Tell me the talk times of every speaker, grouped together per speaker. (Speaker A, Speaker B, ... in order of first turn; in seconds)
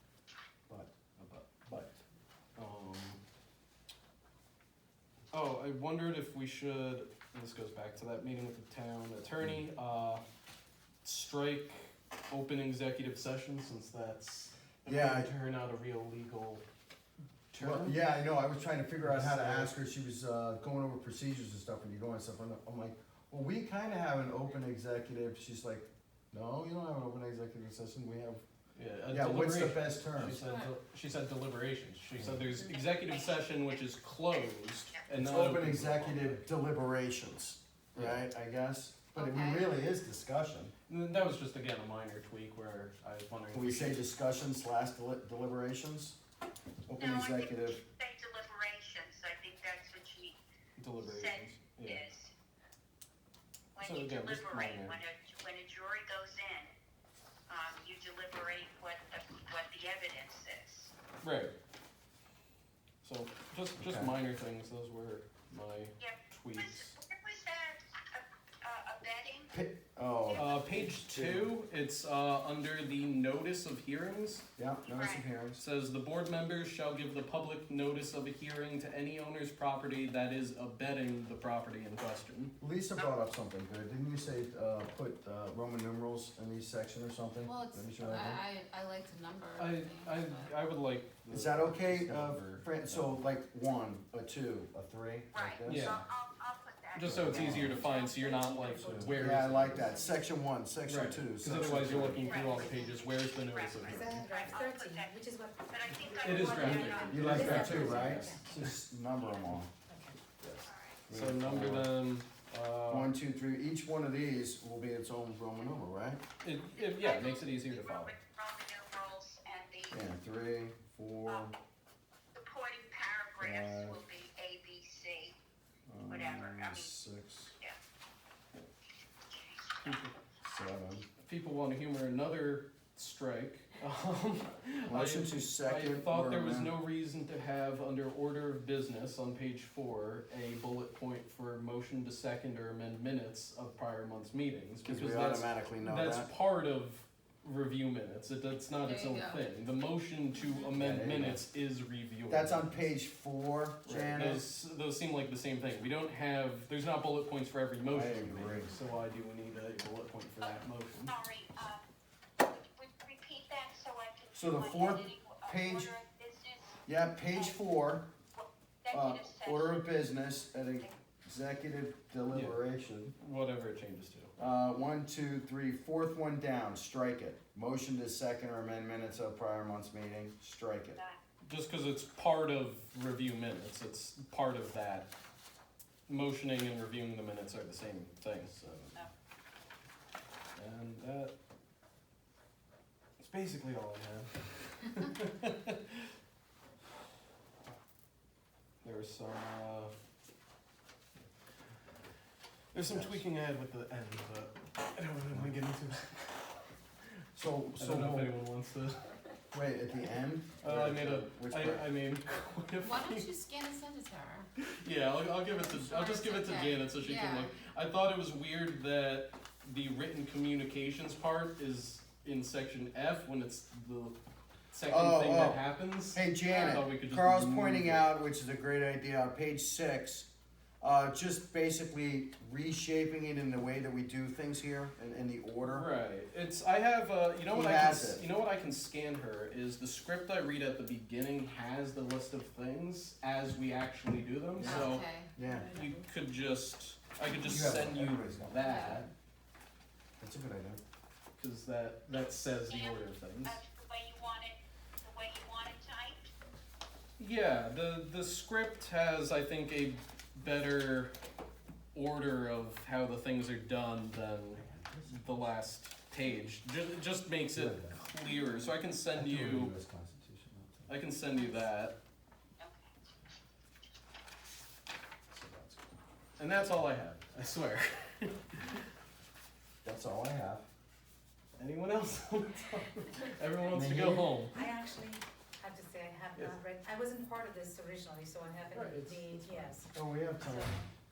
Speaker A: 0.7-1.9, 2.6-3.2, 5.3-10.2, 11.0-16.6, 17.5-17.9, 19.0-19.7, 28.7-36.5, 37.9-38.2, 40.9-44.0, 50.8-52.0, 53.8-55.0, 61.2-61.5, 63.0-67.0, 70.3-74.5, 75.6-82.5, 89.6-93.2, 95.7-96.0, 96.9-99.9, 100.8-104.3, 106.2-108.7, 110.4-113.1, 116.4-118.2, 129.8-130.1, 131.2-152.9, 153.8-161.1, 172.3-172.6, 173.2-174.3, 181.4-185.1, 186.1-188.9, 190.5-191.3, 193.2-195.9, 198.8-199.9, 202.7-206.6, 207.7-209.1, 210.6-213.3, 214.7-224.2, 224.7-228.1, 235.7-249.1, 251.4-253.6, 257.2-261.1, 261.9-269.7, 270.9-271.9, 276.4-278.7, 281.6-284.6, 288.7-289.7
Speaker B: 14.8-15.3, 17.6-28.4, 29.1-30.4, 32.1-32.4, 35.1-40.7, 43.5-46.2, 46.9-47.8, 63.8-64.1, 69.5-71.5, 74.6-75.6, 82.6-88.4, 91.3-96.0, 97.0-97.8, 98.9-102.4, 107.1-109.7, 111.1-111.9, 112.9-116.2, 119.9-121.5, 123.4-124.0, 125.9-127.5, 130.4-131.1, 134.9-136.8, 144.8-146.3, 150.7-151.4, 152.3-154.4, 157.9-158.7, 164.3-165.9, 166.8-168.1, 168.9-173.1, 174.4-181.0, 202.9-203.2, 207.3-208.3, 209.5-211.9, 224.9-230.3, 230.8-235.9, 237.5-238.2, 244.6-245.7, 247.4-248.7, 250.2-250.8, 264.5-265.2, 267.5-268.0, 269.1-270.9, 275.3-275.9, 279.8-280.6, 283.7-284.4, 289.9-290.8
Speaker C: 32.7-33.8, 47.0-50.4, 51.0-52.3, 53.7-56.7, 57.5-60.9, 66.0-69.5, 74.9-75.3, 95.3-98.8, 102.2-107.9, 110.6-111.0, 116.7-120.0, 122.3-125.3, 126.1-127.0, 129.3-130.0, 160.4-161.8, 162.4-167.6, 168.3-169.8, 252.1-256.3, 272.6-272.9
Speaker D: 39.1-39.7, 87.4-90.6, 148.8-149.4, 150.3-150.8, 212.8-214.5, 215.5-217.5, 244.6-245.8, 247.3-247.6, 248.6-249.0, 271.3-271.6
Speaker E: 98.2-100.1, 102.2-102.9, 103.8-108.4, 109.9-110.2, 284.5-290.9